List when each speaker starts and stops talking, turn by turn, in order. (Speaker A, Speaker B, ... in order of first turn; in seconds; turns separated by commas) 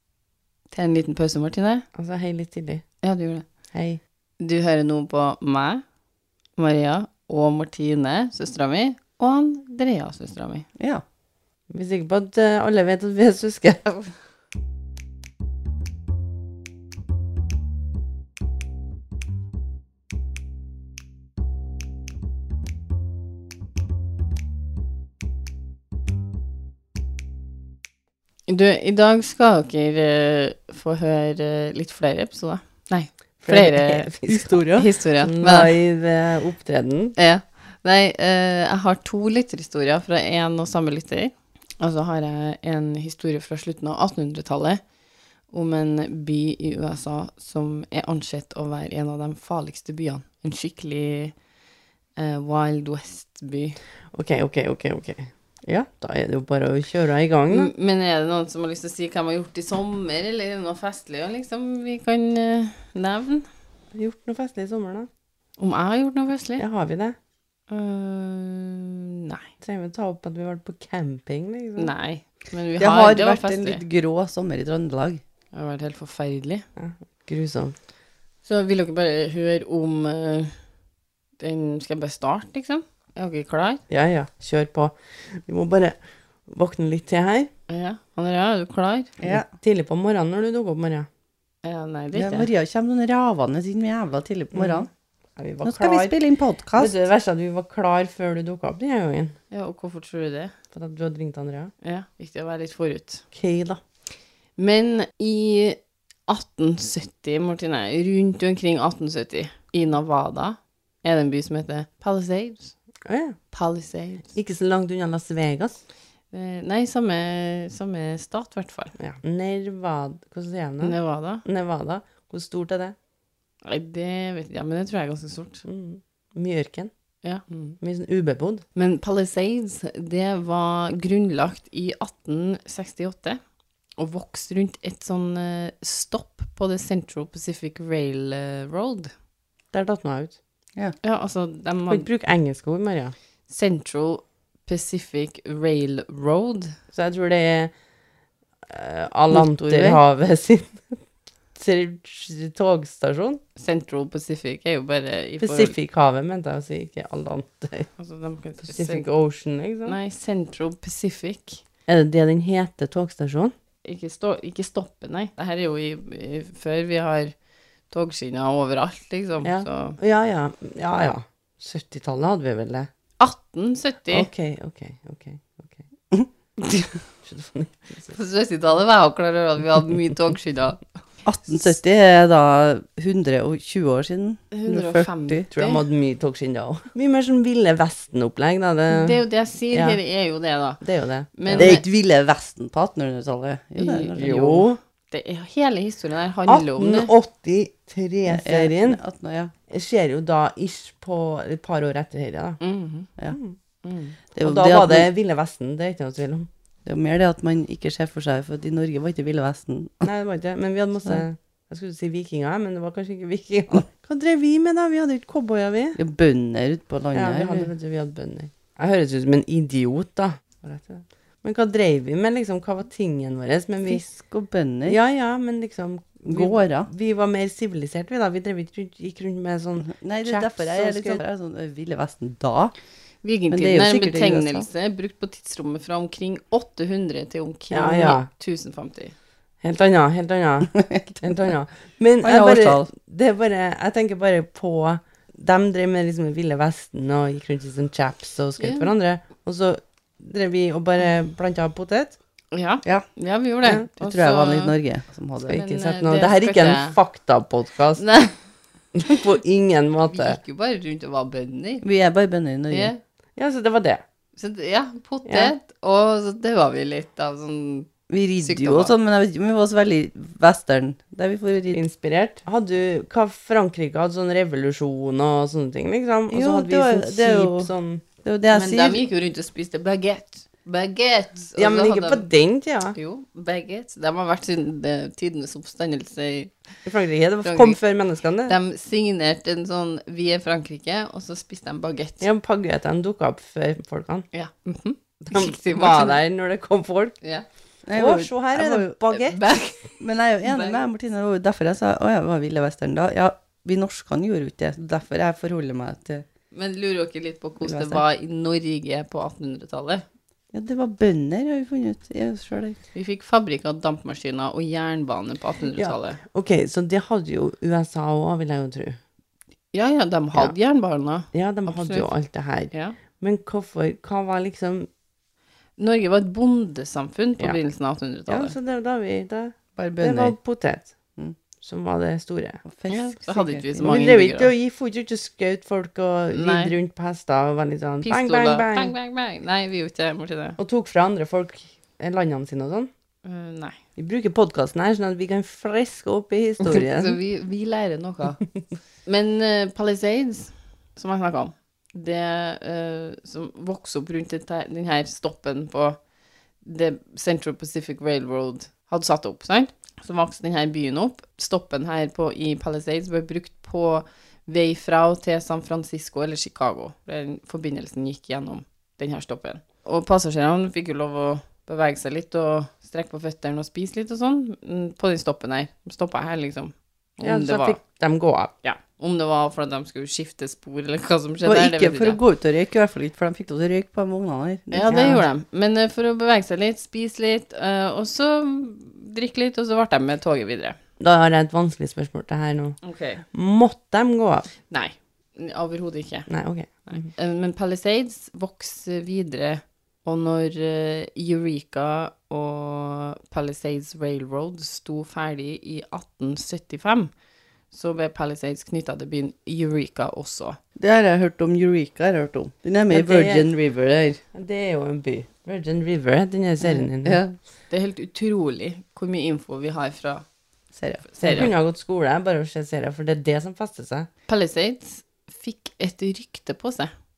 Speaker A: 0.7-1.9, Speaker B: 1.9-2.8, Speaker A: 3.0-3.5, Speaker B: 3.7-4.0, Speaker A: 4.4-5.8, Speaker A: 6.6-10.7, Speaker C: 10.8-11.0, Speaker B: 11.7-14.0, Speaker A: 28.5-34.1, Speaker B: 33.4-34.5, Speaker C: 34.3-34.9, Speaker A: 34.8-35.7, Speaker B: 35.2-37.1, Speaker A: 37.2-44.8, Speaker A: 45.5-51.3, Speaker A: 52.2-53.8, Speaker B: 54.1-57.7, Speaker A: 57.5-63.5, Speaker B: 63.9-65.1, Speaker A: 65.6-66.6, Speaker B: 66.6-67.2, Speaker A: 67.7-69.5, Speaker B: 69.6-71.9, Speaker A: 71.8-73.8, Speaker C: 72.8-75.2, Speaker A: 75.5-76.7, Speaker B: 76.8-77.8, Speaker A: 78.5-80.6, Speaker A: 81.4-83.8, Speaker B: 83.9-87.5, Speaker A: 87.7-89.2, Speaker C: 89.2-89.5, Speaker B: 89.3-91.1, Speaker A: 91.6-92.5, Speaker C: 92.2-94.9, Speaker B: 94.5-94.8, Speaker B: 95.4-96.2, Speaker C: 95.6-97.0, Speaker B: 96.8-99.4, Speaker A: 99.5-100.5, Speaker B: 100.7-101.7, Speaker A: 101.8-103.2, Speaker B: 103.3-103.8, Speaker A: 104.6-112.7, Speaker B: 113.1-113.4, Speaker A: 113.5-114.3, Speaker B: 114.3-115.8, Speaker A: 116.3-118.9, Speaker B: 119.0-123.0, Speaker A: 120.8-121.4, Speaker A: 123.7-125.6, Speaker B: 125.7-126.9, Speaker A: 127.2-127.8, Speaker B: 127.8-128.6, Speaker A: 128.8-133.4, Speaker A: 134.0-139.1, Speaker B: 139.7-140.4, Speaker A: 141.0-142.1, Speaker B: 141.9-143.2, Speaker A: 143.5-146.8, Speaker B: 146.9-147.7, Speaker B: 148.7-151.0, Speaker C: 149.3-150.0, Speaker B: 151.6-153.4, Speaker A: 153.6-155.8, Speaker B: 155.4-157.9, Speaker A: 158.0-159.1, Speaker B: 158.7-160.0, Speaker A: 159.9-161.6, Speaker B: 161.9-163.5, Speaker A: 163.8-167.3, Speaker A: 167.9-170.0, Speaker B: 169.4-172.9, Speaker A: 173.2-174.3, Speaker B: 174.1-175.8, Speaker B: 177.2-178.2, Speaker A: 178.1-180.8, Speaker C: 181.2-185.4, Speaker A: 184.5-185.8, Speaker B: 185.5-189.2, Speaker A: 188.9-190.8, Speaker B: 189.7-190.0, Speaker B: 190.8-191.8, Speaker A: 191.4-191.8, Speaker C: 191.6-194.7, Speaker A: 193.8-194.1, Speaker B: 194.1-194.8, Speaker A: 195.1-197.1, Speaker B: 196.5-199.0, Speaker C: 198.3-199.5, Speaker B: 199.7-202.6, Speaker A: 202.6-203.1, Speaker B: 203.3-203.6, Speaker A: 203.8-204.2, Speaker C: 204.3-205.1, Speaker B: 204.4-206.5, Speaker C: 206.9-210.1, Speaker B: 210.0-216.0, Speaker C: 216.0-217.7, Speaker B: 217.1-224.1, Speaker C: 223.9-225.0, Speaker B: 224.9-231.2, Speaker C: 226.3-226.9, Speaker C: 229.8-232.7, Speaker A: 233.2-239.2, Speaker C: 233.5-234.7, Speaker B: 237.7-238.3, Speaker B: 239.6-252.2, Speaker C: 242.2-242.9, Speaker A: 248.6-248.9, Speaker A: 252.5-254.8, Speaker C: 254.0-255.6, Speaker A: 255.5-257.0, Speaker B: 255.5-258.1, Speaker A: 258.0-258.4, Speaker B: 258.9-260.4, Speaker A: 260.1-261.9, Speaker C: 261.8-262.9, Speaker A: 262.7-263.0, Speaker B: 263.4-264.0, Speaker A: 264.4-267.9, Speaker B: 265.3-265.5, Speaker C: 268.1-271.9, Speaker A: 268.4-268.9, Speaker B: 271.7-278.0, Speaker C: 276.3-277.7, Speaker C: 278.2-279.0, Speaker A: 278.5-282.2, Speaker B: 281.6-283.0, Speaker A: 282.9-286.5, Speaker B: 286.9-288.5, Speaker A: 287.4-287.8, Speaker A: 288.5-292.2, Speaker B: 292.2-294.3, Speaker A: 294.3-296.2, Speaker B: 295.3-297.2, Speaker C: 297.9-299.0, Speaker B: 297.9-299.4, Speaker A: 299.1-300.8, Speaker C: 300.0-306.2, Speaker A: 306.5-310.1, Speaker C: 307.6-308.0, Speaker C: 310.5-312.8, Speaker A: 312.9-316.2, Speaker B: 315.8-319.0, Speaker A: 319.7-322.1, Speaker B: 321.3-324.9, Speaker A: 322.7-323.0, Speaker A: 325.8-328.6, Speaker B: 328.3-330.9, Speaker C: 329.8-330.4, Speaker B: 331.6-332.6, Speaker C: 332.6-334.0, Speaker A: 332.9-334.5, Speaker B: 333.8-338.9, Speaker A: 336.3-336.8, Speaker A: 338.0-340.6, Speaker B: 340.6-342.9, Speaker A: 343.2-343.8, Speaker B: 344.0-347.2, Speaker A: 346.6-348.4, Speaker A: 349.1-356.0, Speaker A: 356.6-377.8, Speaker B: 377.2-378.5, Speaker A: 378.6-382.2, Speaker C: 381.4-385.2, Speaker A: 384.7-390.8, Speaker B: 391.0-392.8, Speaker A: 392.8-393.2, Speaker B: 393.3-394.5, Speaker A: 394.7-396.3, Speaker B: 396.3-397.1, Speaker A: 396.9-407.1, Speaker A: 407.7-410.6, Speaker C: 410.8-414.2, Speaker B: 412.9-413.5, Speaker B: 414.3-417.2, Speaker C: 417.0-417.4, Speaker A: 417.7-420.2, Speaker C: 420.7-421.1, Speaker A: 421.1-421.5, Speaker B: 421.2-424.1, Speaker A: 424.3-426.9